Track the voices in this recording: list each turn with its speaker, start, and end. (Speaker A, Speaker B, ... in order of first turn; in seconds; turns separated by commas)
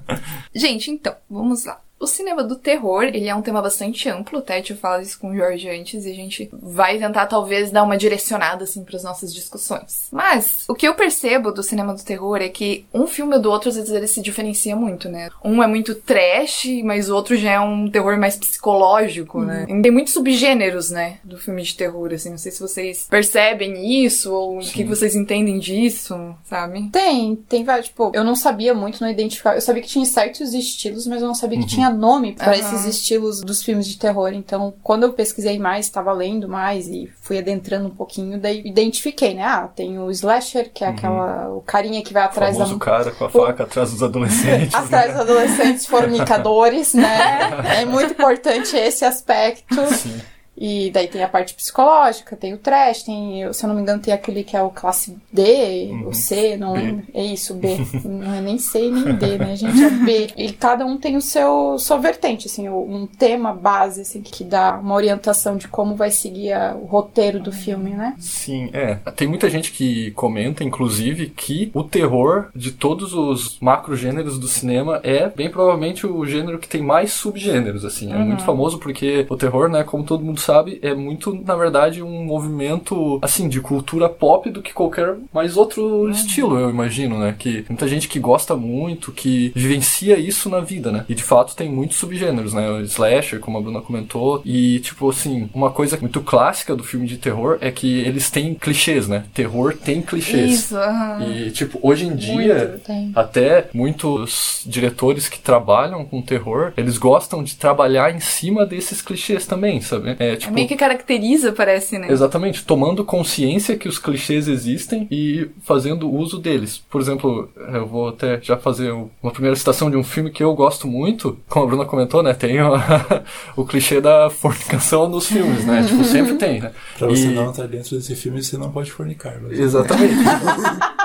Speaker A: 0.5-26.9, Speaker B: 19.4-19.7, Speaker C: 24.6-25.0, Speaker B: 26.9-43.5, Speaker C: 31.5-31.8, Speaker A: 32.4-33.0, Speaker C: 40.9-41.2, Speaker C: 42.3-45.5, Speaker B: 44.4-50.0, Speaker C: 46.0-46.4, Speaker A: 47.2-47.5, Speaker C: 47.3-47.8, Speaker C: 49.8-50.2, Speaker B: 50.5-68.1, Speaker C: 55.9-57.0, Speaker C: 68.2-110.7, Speaker A: 78.1-78.6, Speaker A: 86.0-86.5, Speaker A: 100.3-101.4, Speaker B: 102.2-103.2, Speaker A: 110.4-112.2, Speaker C: 112.1-127.5, Speaker D: 126.9-130.7, Speaker C: 129.5-130.8